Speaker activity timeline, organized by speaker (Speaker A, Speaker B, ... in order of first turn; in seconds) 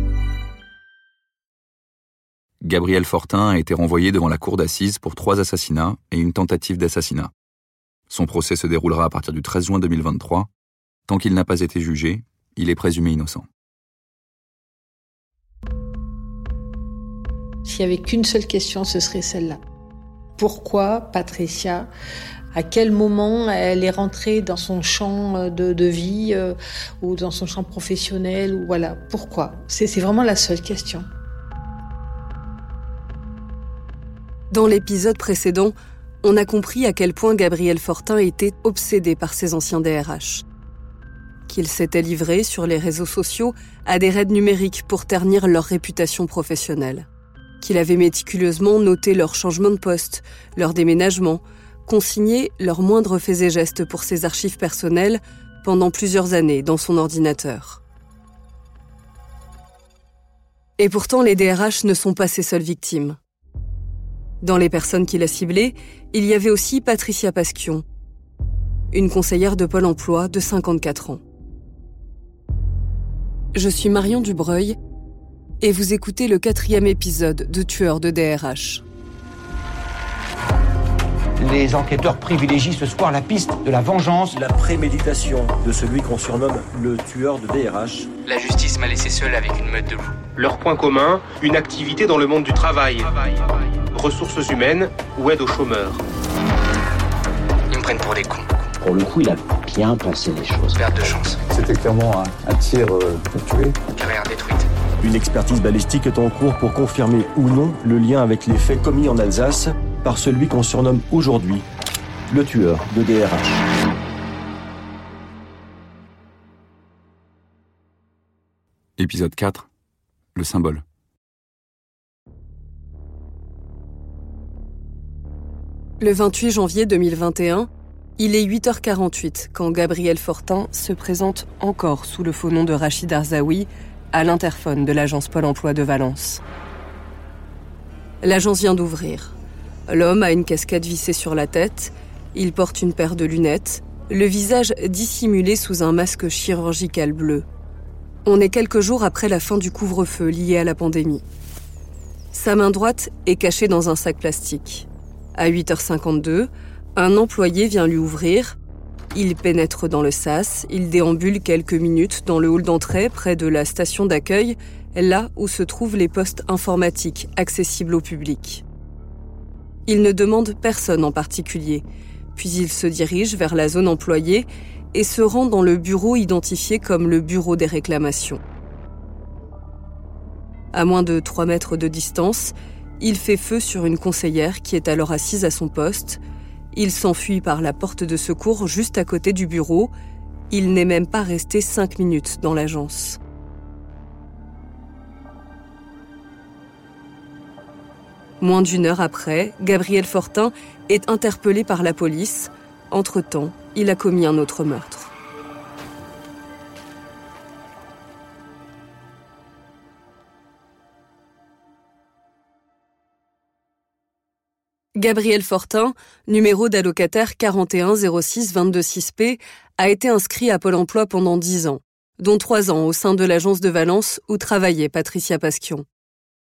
Speaker A: 2.6-7.3, 8.1-10.5, 11.1-13.5, 119.0-119.7, 120.3-120.8
Speaker B: 17.6-19.6, 20.4-21.9, 22.5-31.1
Speaker C: 34.5-40.4, 41.5-47.0, 47.6-57.8, 60.8-63.2, 64.4-67.8, 68.9-71.2, 73.5-74.8, 75.6-78.8, 126.0-136.4, 138.2-139.3, 139.9-147.4, 148.2-151.2, 152.3-158.6, 159.1-168.6, 169.8-171.8, 172.3-178.4, 180.7-186.2, 186.7-189.9, 190.5-193.2, 198.4-205.1, 214.9-225.8
Speaker D: 84.3-88.1, 105.0-111.7, 112.3-113.7
Speaker E: 88.2-90.2, 97.7-98.7, 100.7-101.4, 103.9-104.7
Speaker F: 90.3-93.2, 93.9-96.0
Speaker G: 98.8-100.8
Speaker H: 101.5-103.8